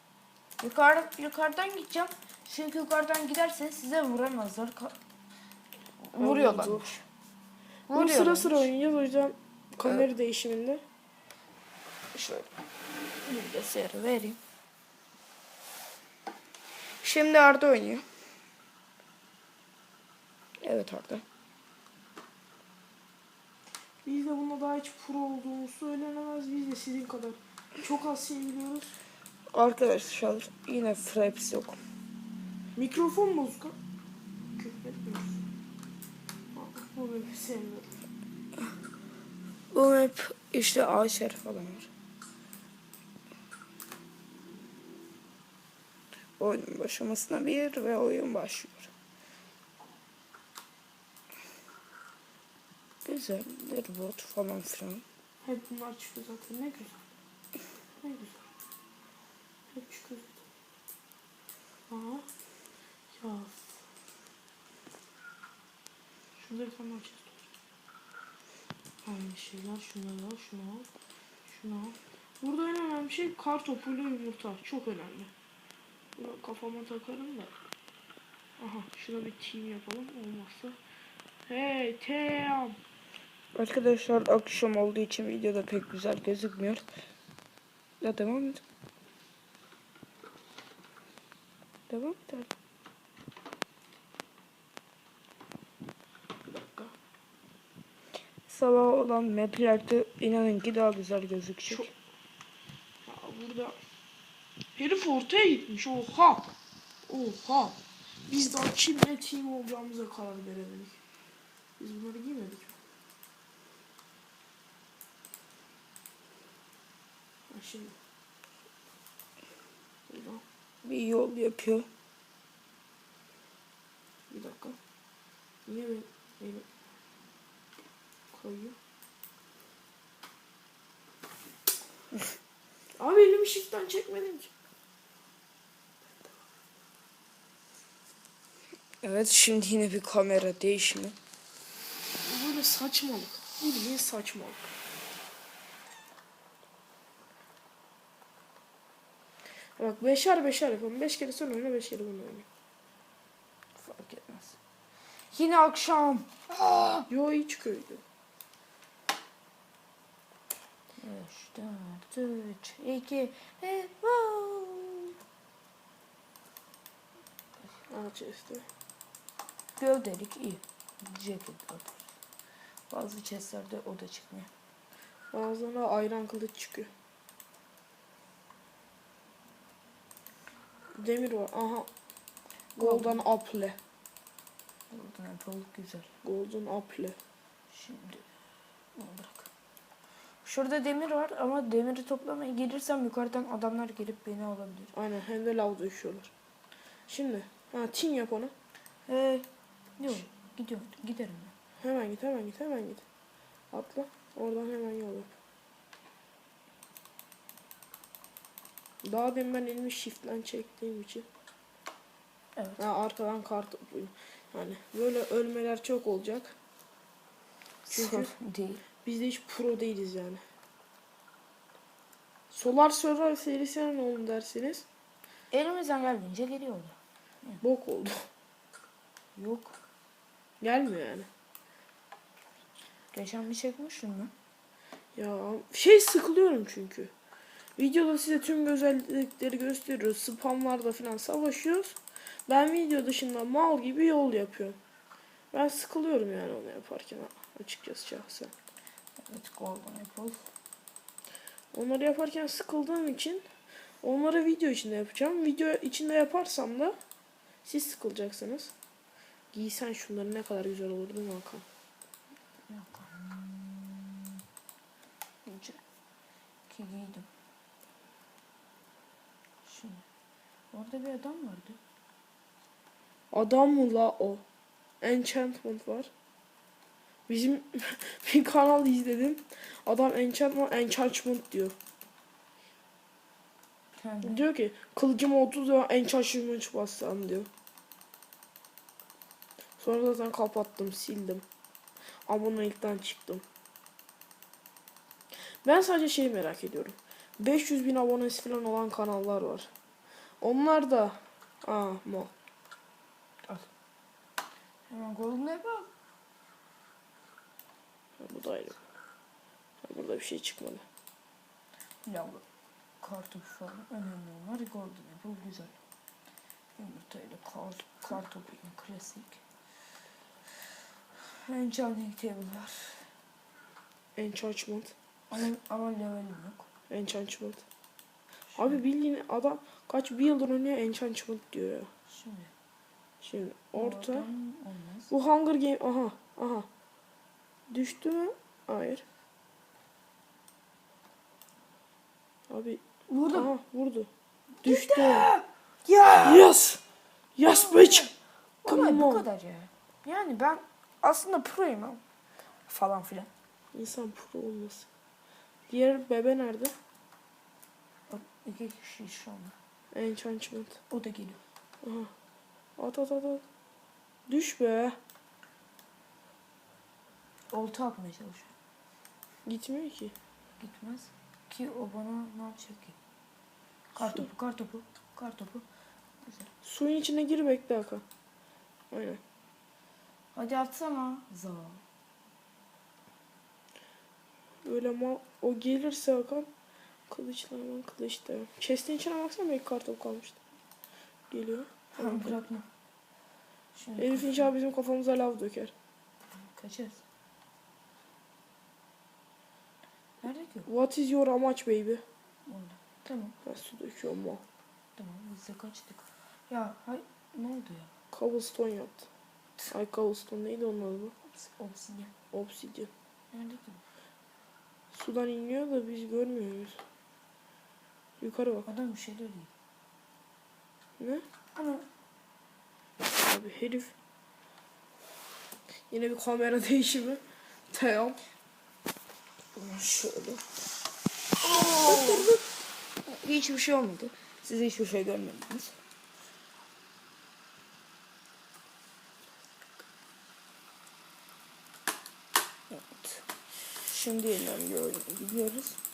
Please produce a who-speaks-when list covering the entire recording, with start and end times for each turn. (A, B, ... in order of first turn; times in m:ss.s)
0:00.6-0:05.0 A
0:06.0-0:07.0 A
0:06.2-0:06.9 B
0:07.9-0:08.7 A
0:07.9-0:10.8 B
0:12.1-0:12.5 A
0:13.2-0:14.4 A
0:17.0-0:18.0 A
0:20.6-0:21.2 A
0:24.0-0:28.9 B
0:29.5-0:31.8 A
0:32.8-0:33.8 B
0:34.6-0:35.4 B
0:36.5-0:37.9 B
0:39.7-0:41.9 A
0:46.4-0:48.9 A
0:53.0-0:55.0 A
0:55.4-0:57.0 B
0:58.0-0:58.5 B
0:59.7-1:00.4 B
1:01.9-1:02.3 B
1:03.1-1:03.7 B
1:06.4-1:07.5 B
1:09.0-1:10.9 B
1:11.5-1:15.3 B
1:16.2-1:17.6 B
1:18.6-1:20.8 B
1:21.5-1:22.8 B
1:23.6-1:26.8 A
1:28.0-1:28.6 A
1:31.9-1:32.5 A
1:36.5-1:36.9 B
1:38.5-1:41.9 A
1:43.0-1:43.8 B
1:44.8-1:46.5 B
1:47.1-1:51.0 B
1:51.8-1:52.8 B
1:57.5-1:58.0 B
2:00.1-2:00.4 B
2:00.8-2:01.9 A
2:04.3-2:04.8 B
2:05.7-2:06.7 B
2:08.3-2:08.8 B
2:13.0-2:14.5 B
2:19.0-2:21.2 A
2:22.2-2:24.7 B
2:29.8-2:32.5 B
2:33.8-2:34.6 A
2:35.3-2:37.1 A
2:37.1-2:38.0 B
2:41.0-2:45.1 A
2:47.9-2:48.6 B
2:49.8-2:52.0 A
2:52.9-2:54.5 A
2:55.3-2:56.9 B
3:01.0-3:01.9 B
3:02.8-3:03.8 B
3:02.8-3:03.2 A
3:04.9-3:06.1 A
3:06.2-3:07.2 B
3:07.7-3:08.2 A
3:09.0-3:09.5 A
3:10.4-3:14.9 A
3:14.9-3:16.3 B
3:17.1-3:18.5 B
3:19.1-3:19.5 A
3:20.0-3:21.5 A
3:21.8-3:23.0 B
3:23.7-3:25.3 B
3:29.0-3:31.3 B
3:32.8-3:36.6 B
3:37.8-3:38.8 A
3:37.9-3:38.3 B
3:39.0-3:40.4 B
3:42.5-3:44.9 B
3:45.5-3:47.6 A
3:47.6-3:48.2 B
3:49.4-3:49.8 A
3:50.6-3:51.3 B
3:53.1-3:54.3 A
3:55.2-3:57.1 B
3:57.8-4:04.8 B
4:05.5-4:08.5 B
4:09.2-4:10.4 A
4:11.7-4:13.4 B
4:14.0-4:17.0 B
4:17.6-4:18.7 B
4:19.5-4:21.6 B
4:22.7-4:24.4 A
4:25.5-4:25.8 A
4:26.7-4:27.3 A
4:29.6-4:30.0 A
4:30.7-4:31.8 A
4:33.3-4:34.4 B
4:35.0-4:36.1 B
4:37.3-4:41.8 B
4:44.0-4:44.4 A
4:44.2-4:47.5 B
4:49.8-4:51.4 B
4:52.3-4:53.4 B
4:55.6-4:59.7 B
5:00.4-5:02.3 B
5:04.9-5:05.9 A
5:08.2-5:08.8 B
5:09.8-5:10.8 B
5:12.1-5:12.4 A
5:13.0-5:15.8 A
5:16.8-5:19.4 A
5:21.3-5:23.0 A
5:24.2-5:25.0 B
5:25.3-5:26.7 A
5:26.9-5:27.6 B
5:28.6-5:31.9 B
5:32.1-5:32.5 A
5:33.2-5:34.3 B
5:33.8-5:35.1 A
5:35.1-5:36.7 B
5:37.7-5:39.0 B
5:42.5-5:44.1 B
5:43.1-5:43.5 A
5:44.6-5:46.5 A
5:44.6-5:45.3 B
5:46.2-5:46.8 B
5:47.4-5:48.1 B
5:47.4-5:48.1 A
5:48.6-5:52.0 A
5:48.6-5:49.3 B
5:52.7-5:53.3 A
5:53.7-5:54.9 B
5:55.7-5:56.7 B
5:58.1-5:59.5 A
5:59.9-6:00.8 B
6:00.9-6:01.4 A
6:01.8-6:02.1 B
6:02.8-6:03.4 B
6:04.3-6:05.0 B
6:07.5-6:08.5 A
6:09.5-6:10.1 B
6:10.6-6:13.0 A
6:14.0-6:15.6 A
6:14.0-6:14.3 B
6:16.2-6:16.5 A
6:16.6-6:18.0 B
6:18.9-6:19.2 B
6:20.4-6:21.8 A
6:24.6-6:26.5 B
6:27.1-6:30.4 B
6:31.3-6:32.4 B
6:32.0-6:32.7 A
6:33.8-6:34.5 A
6:34.0-6:35.7 B
6:36.3-6:37.0 A
6:40.2-6:40.7 A
6:40.7-6:42.0 B
6:42.5-6:43.4 A
6:43.4-6:44.4 B
6:45.0-6:47.9 A
6:48.1-6:49.1 B
6:49.7-6:51.1 B
6:51.3-6:52.1 A
6:52.3-6:52.9 B
6:53.3-6:53.8 A
6:54.9-6:56.8 B
6:58.2-6:58.7 B
6:58.6-6:59.5 A
7:01.6-7:01.9 A
7:03.2-7:03.9 B
7:05.9-7:08.2 B
7:09.6-7:10.4 A
7:11.4-7:12.4 A
7:11.5-7:12.3 B
7:13.1-7:15.8 A
7:22.7-7:23.2 A
7:23.8-7:25.8 A